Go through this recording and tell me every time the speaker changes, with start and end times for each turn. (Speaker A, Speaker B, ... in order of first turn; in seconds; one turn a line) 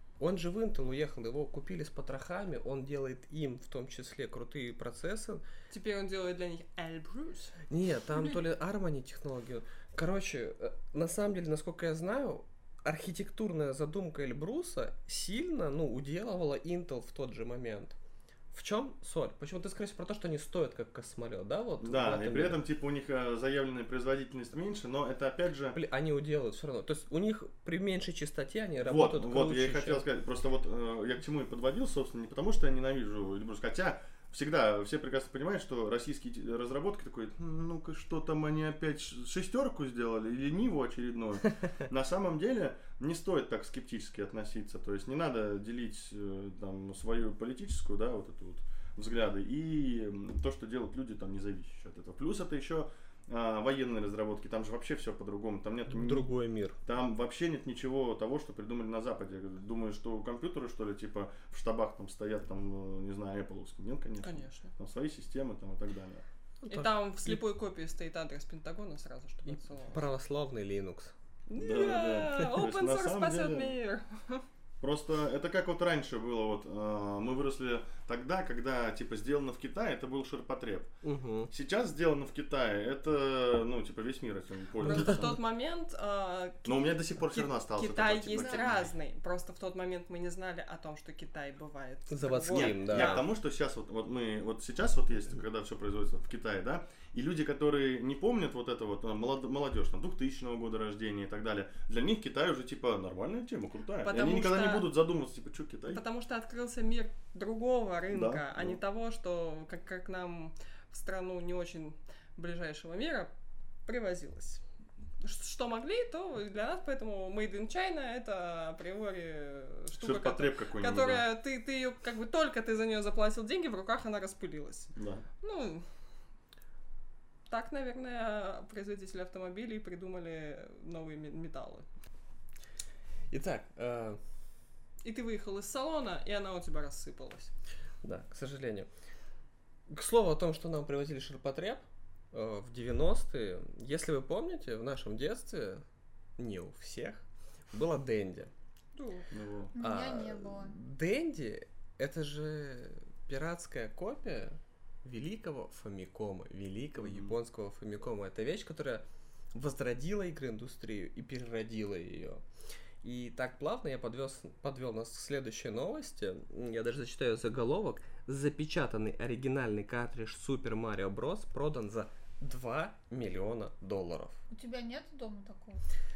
Speaker A: 0.2-5.4
Speaker B: 5.7-7.6
Speaker A: 7.7-18.0
Speaker A: 18.5-22.6
Speaker C: 21.8-25.8
Speaker A: 25.7-30.0
Speaker C: 28.8-56.3
Speaker A: 55.9-56.8
Speaker C: 56.8-66.2
Speaker B: 64.2-64.7
Speaker A: 66.6-67.4
Speaker B: 66.7-70.1
Speaker A: 69.5-71.1
Speaker B: 71.5-74.5
Speaker C: 71.5-73.8
Speaker C: 74.8-80.9
Speaker A: 81.0-81.5
Speaker C: 81.5-85.4
Speaker B: 84.8-93.3
Speaker A: 84.8-85.4
Speaker C: 86.7-88.9
Speaker D: 88.3-88.7
Speaker A: 92.1-93.3
Speaker C: 92.5-106.0
Speaker B: 104.0-104.9
Speaker B: 105.9-113.3
Speaker C: 108.1-108.8
Speaker B: 113.9-114.6
Speaker B: 115.2-125.8
Speaker C: 120.0-121.3
Speaker C: 125.0-125.2
Speaker B: 127.5-131.9
Speaker A: 133.3-134.2
Speaker B: 135.0-137.5
Speaker A: 138.0-138.9
Speaker A: 139.9-145.8
Speaker A: 146.4-148.5
Speaker B: 148.9-149.3
Speaker C: 149.3-149.7
Speaker D: 149.7-150.8
Speaker A: 149.8-162.4
Speaker C: 157.0-157.4
Speaker A: 163.0-174.4
Speaker D: 174.5-175.8